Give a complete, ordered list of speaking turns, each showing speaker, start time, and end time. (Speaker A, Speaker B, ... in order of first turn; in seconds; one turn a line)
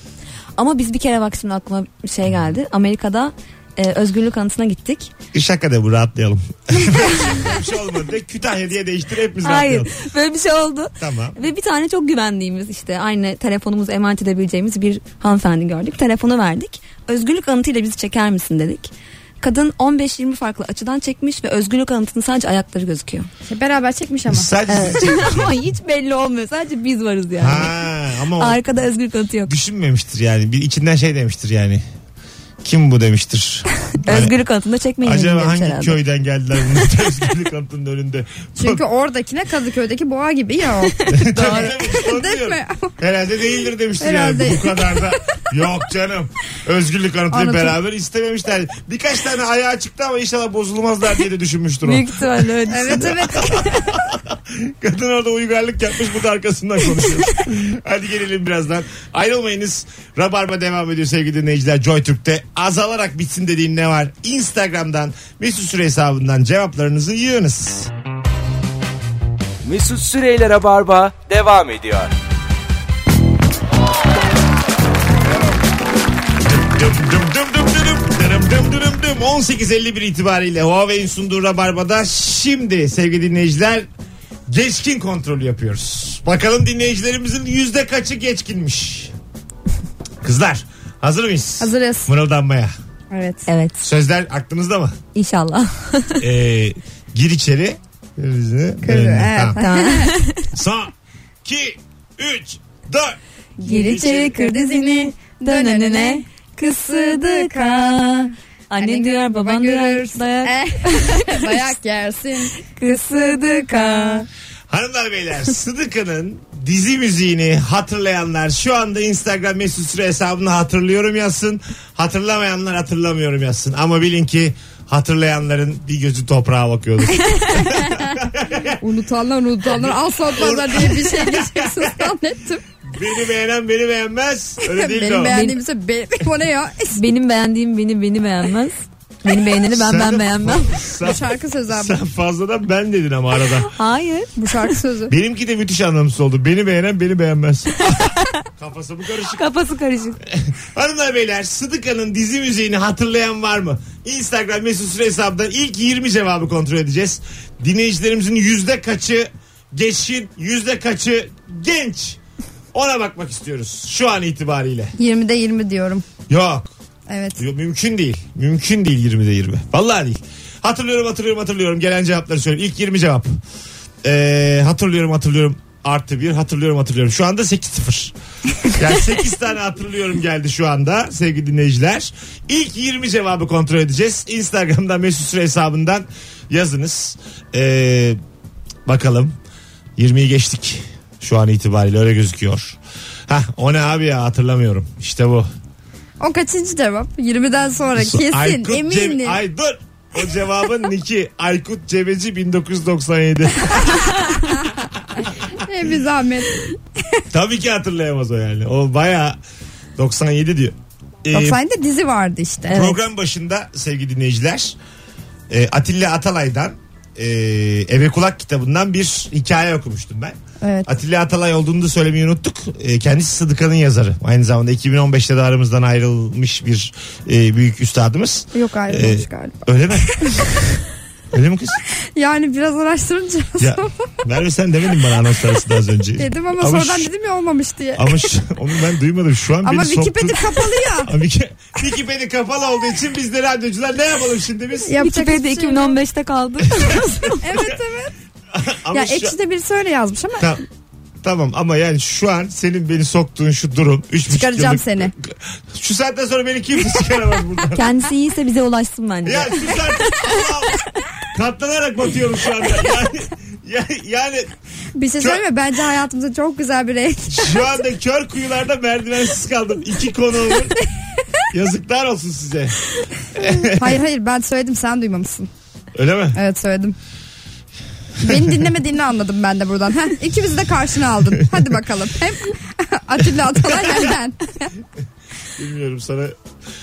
Speaker A: 0.6-5.1
Speaker B: 5.3-9.9
Speaker A: 9.4-23.3
Speaker B: 11.0-11.4
Speaker C: 23.5-24.5
Speaker B: 24.3-25.5
Speaker A: 24.7-27.8
Speaker B: 27.4-28.6
Speaker A: 28.4-29.5
Speaker B: 29.5-31.8
Speaker B: 32.6-34.3
Speaker A: 33.9-36.0
Speaker B: 35.0-38.8
Speaker C: 38.6-43.0
Speaker B: 41.1-67.9
Speaker A: 41.1-41.8
Speaker C: 44.0-45.1
Speaker C: 47.3-47.8
Speaker A: 51.8-53.1
Speaker C: 52.7-53.9
Speaker D: 69.6-72.1
Speaker B: 76.4-83.8
Speaker B: 84.5-89.1
Speaker B: 90.2-92.7
Speaker C: 91.6-92.1
Speaker C: 93.1-93.4
Speaker A: 93.5-93.8
Speaker B: 93.8-95.0
Speaker A: 95.1-96.2
Speaker B: 96.2-99.6
Speaker C: 98.8-100.2
Speaker A: 99.6-100.5
Speaker B: 100.5-100.9
Speaker B: 101.4-103.2
Speaker C: 103.6-112.6
Speaker A: 103.6-111.7
Speaker B: 103.8-104.3
Speaker A: 112.6-114.2
Speaker C: 113.8-114.1
Speaker B: 114.7-128.8
Speaker C: 127.5-128.2
Speaker C: 128.8-132.6
Speaker B: 129.7-132.1
Speaker B: 132.8-135.4
Speaker C: 134.6-137.0
Speaker A: 135.3-135.6
Speaker A: 136.9-140.8
Speaker B: 139.7-143.7
Speaker C: 141.0-142.0
Speaker A: 143.6-144.3
Speaker C: 144.4-145.1
Speaker B: 145.1-149.4
Speaker A: 149.3-150.2
Speaker B: 150.2-162.2
Speaker B: 162.7-164.9
Speaker C: 164.9-166.0
Speaker B: 166.3-166.7
Speaker C: 167.1-167.4
Speaker B: 167.4-173.3
Speaker B: 174.0-188.2
Speaker B: 188.8-189.3
Speaker B: 190.0-195.5
Speaker C: 196.2-199.4
Speaker B: 197.9-205.3
Speaker C: 205.5-207.2
Speaker B: 207.3-209.4
Speaker B: 209.9-211.6
Speaker C: 211.3-212.9
Speaker B: 212.7-214.8
Speaker A: 212.7-213.0
Speaker B: 215.5-230.8
Speaker C: 220.6-220.9
Speaker C: 228.5-230.4
Speaker B: 231.3-231.8
Speaker C: 232.1-233.9
Speaker B: 233.6-237.1
Speaker C: 236.2-238.3
Speaker B: 238.0-244.9
Speaker C: 239.6-241.1
Speaker C: 244.8-245.9
Speaker A: 245.0-247.6
Speaker B: 246.7-247.8
Speaker C: 247.4-248.1
Speaker B: 248.5-249.3
Speaker C: 248.9-250.5
Speaker B: 251.2-257.9
Speaker C: 254.3-255.1
Speaker A: 257.8-259.8
Speaker B: 259.2-264.5
Speaker C: 264.9-267.6
Speaker B: 267.3-270.8
Speaker B: 271.5-272.8
Speaker B: 273.3-274.0
Speaker C: 273.4-275.5
Speaker B: 275.9-276.4
Speaker C: 276.3-276.9
Speaker C: 278.2-284.7
Speaker B: 283.7-284.1
Speaker B: 285.6-286.4